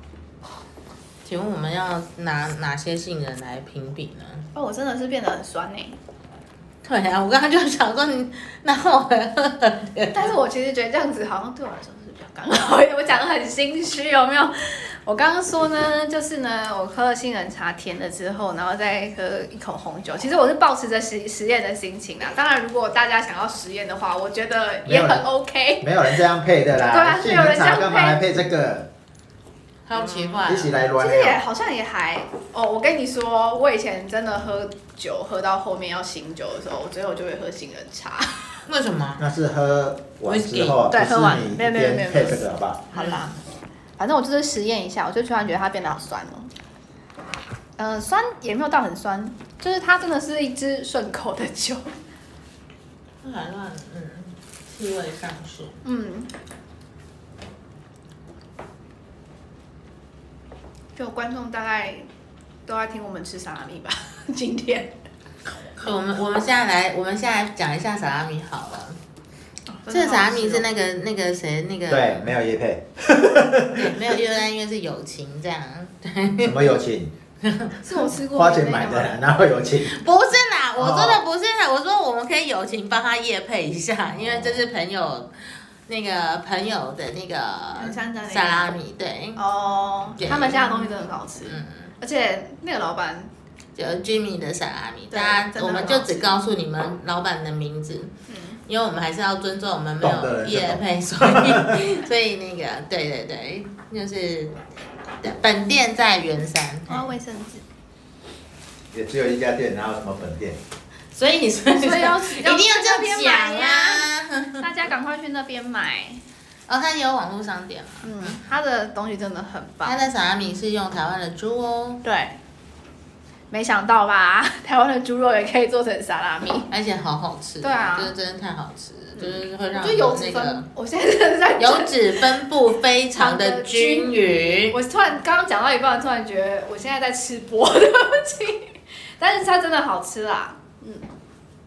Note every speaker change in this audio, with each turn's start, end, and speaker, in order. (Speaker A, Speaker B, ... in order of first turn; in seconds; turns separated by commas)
Speaker A: 1.2-4.5, Speaker B: 4.5-6.0, Speaker A: 6.8-10.3, Speaker B: 10.1-26.2, Speaker C: 24.9-25.3, Speaker C: 25.8-28.9, Speaker B: 26.9-28.2, Speaker A: 29.9-30.8, Speaker C: 30.4-31.4, Speaker B: 31.0-38.6, Speaker A: 38.7-39.3, Speaker C: 39.2-42.9, Speaker A: 40.3-40.8, Speaker B: 40.9-43.4, Speaker A: 43.0-43.3, Speaker B: 44.0-46.5, Speaker B: 47.8-51.9, Speaker A: 53.2-55.8, Speaker B: 55.8-56.3, Speaker B: 61.0-62.1, Speaker B: 62.7-64.9, Speaker A: 65.8-69.0, Speaker B: 69.7-70.7, Speaker A: 69.9-72.3, Speaker C: 71.9-74.0, Speaker A: 73.7-76.7, Speaker C: 76.4-77.2, Speaker A: 77.4-77.8, Speaker B: 77.8-79.2, Speaker C: 78.3-80.0, Speaker A: 79.9-89.4, Speaker C: 80.8-81.2, Speaker C: 84.2-84.7, Speaker B: 87.8-88.7, Speaker B: 89.4-93.3, Speaker A: 90.2-91.9, Speaker A: 93.8-98.1, Speaker B: 95.1-96.3, Speaker B: 98.3-98.6, Speaker A: 98.7-104.6, Speaker C: 100.0-101.8, Speaker A: 105.2-107.1, Speaker B: 106.9-107.6, Speaker C: 108.9-110.6, Speaker A: 111.1-114.7, Speaker B: 111.8-114.1, Speaker B: 114.6-116.2, Speaker A: 116.7-118.4, Speaker B: 118.0-120.0, Speaker A: 119.8-122.0, Speaker B: 122.0-122.4, Speaker B: 123.5-126.7, Speaker A: 126.7-130.7, Speaker B: 127.6-128.1, Speaker B: 129.2-132.2, Speaker A: 131.6-134.8, Speaker B: 133.2-141.1